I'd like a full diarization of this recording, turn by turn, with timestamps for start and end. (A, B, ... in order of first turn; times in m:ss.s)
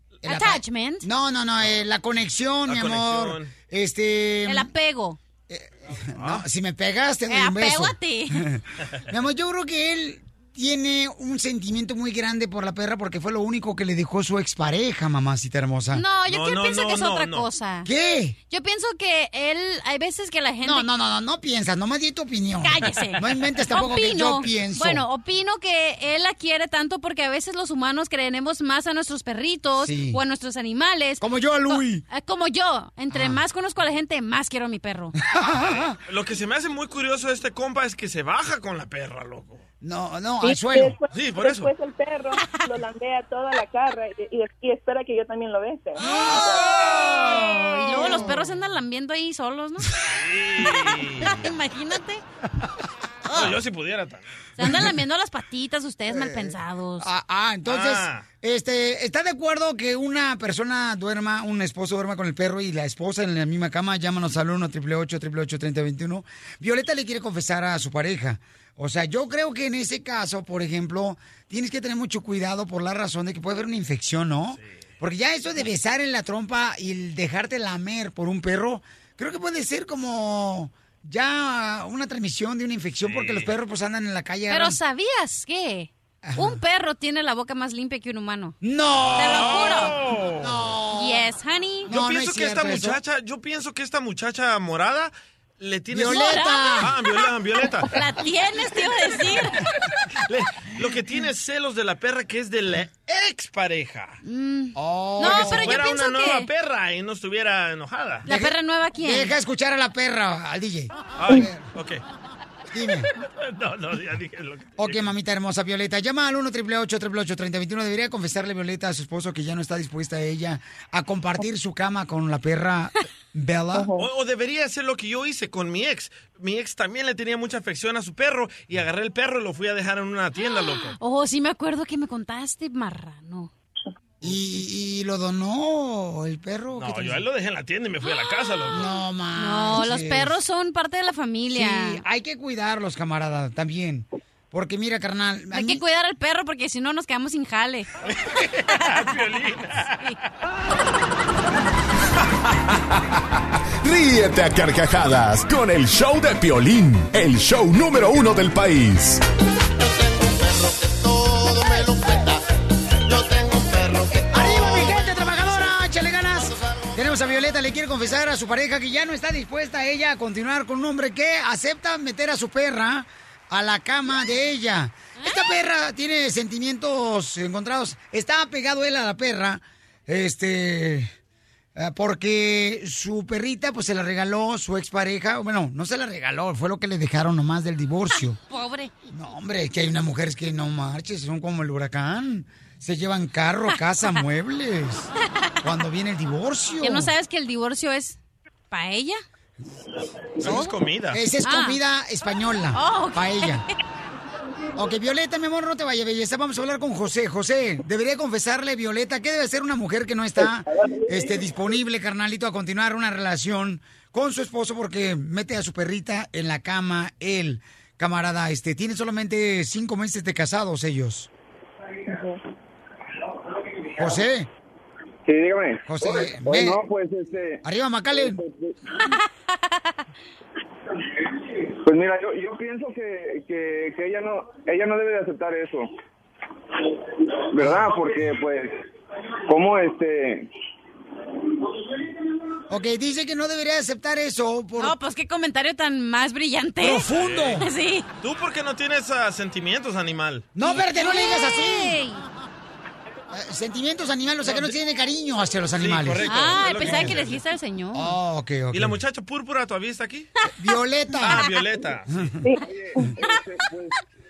0:00.2-0:04.7 A
0:00.2-0:01.0 B
0:02.6-0:03.5 C
0:04.5-0:05.2 B
0:05.5-0:16.0 A
0:06.1-0:06.4 C
0:07.3-0:08.4 B
0:15.9-0:17.9 B
0:16.3-0:17.5 C
0:17.8-0:18.4 A
0:18.5-0:20.9 B
0:20.6-0:25.0 A
0:22.6-0:35.1 B
0:29.8-0:30.2 A
0:31.2-0:32.0 A
0:33.1-0:33.4 A
0:35.2-0:36.0 A
0:36.0-0:39.6 C
0:39.8-0:41.0 A
0:40.4-0:46.8 D
0:41.1-0:41.7 C
0:46.0-0:50.0 B
0:46.5-0:48.3 C
0:48.0-0:48.3 A
0:50.0-0:51.6 C
0:50.8-0:52.2 B
0:53.3-0:53.6 B
0:53.3-0:54.4 C
0:54.6-0:57.1 B
0:56.1-1:24.8 A
0:57.6-0:58.2 C
1:23.0-1:23.5 C
1:24.5-1:28.6 B
1:26.2-1:26.6 A
1:28.6-1:29.8 A
1:29.1-1:30.6 C
1:29.2-1:30.0 B
1:30.4-1:31.2 A
1:30.9-1:31.9 B
1:31.9-1:33.0 A
1:31.9-1:38.0 C
1:35.9-1:36.9 A
1:36.0-1:37.2 B
1:37.8-1:39.6 B
1:40.2-1:44.2 C
1:44.2-1:46.5 B
1:44.7-1:45.8 A
1:45.2-1:48.3 C
1:48.2-1:49.3 B
1:48.3-1:51.6 A
1:51.2-1:52.0 C
1:52.7-1:53.1 A
1:53.3-1:55.0 C
1:54.8-2:03.9 A
2:03.7-2:04.0 D
2:04.0-2:11.0 C
2:10.4-2:13.5 B
2:14.2-2:17.2 A
2:16.8-2:18.9 C
2:18.7-2:20.4 A
2:19.3-2:22.0 B
2:21.5-2:25.8 A
2:25.5-2:27.9 B
2:28.0-2:30.1 C
2:33.8-2:39.2 E
2:44.3-3:01.1 A
2:55.2-2:55.5 B
3:01.8-3:08.4 A
3:08.5-3:08.9 B
3:09.1-3:15.1 A
3:13.7-3:14.2 B
3:15.6-3:17.1 A
3:16.8-3:18.2 B
3:18.7-3:19.2 B
3:20.4-3:21.2 C
3:20.4-3:20.7 B
3:21.1-3:23.6 A
3:21.4-3:21.8 B
3:22.7-3:23.7 B
3:24.8-3:41.3 A
3:42.1-3:42.4 D
3:44.0-3:44.5 A
3:45.2-3:48.7 F
3:45.8-3:46.8 A
3:47.6-3:48.4 A
3:51.8-3:55.9 F
3:57.5-3:58.8 F
3:59.5-4:00.5 F
4:02.7-4:04.9 A
4:04.8-4:08.1 B
4:06.8-4:07.7 A
4:07.1-4:07.6 C
4:08.2-4:10.5 C
4:10.5-4:12.0 A
4:10.6-4:12.2 B
4:13.3-4:17.2 A
4:14.4-4:14.7 C
4:15.8-4:17.4 C
4:16.2-4:18.1 B
4:17.9-4:19.0 A
4:18.7-4:20.3 C
4:20.5-4:21.5 A
4:21.2-4:22.4 C
4:21.4-4:21.6 B
4:22.1-4:22.4 A
4:22.6-4:24.0 F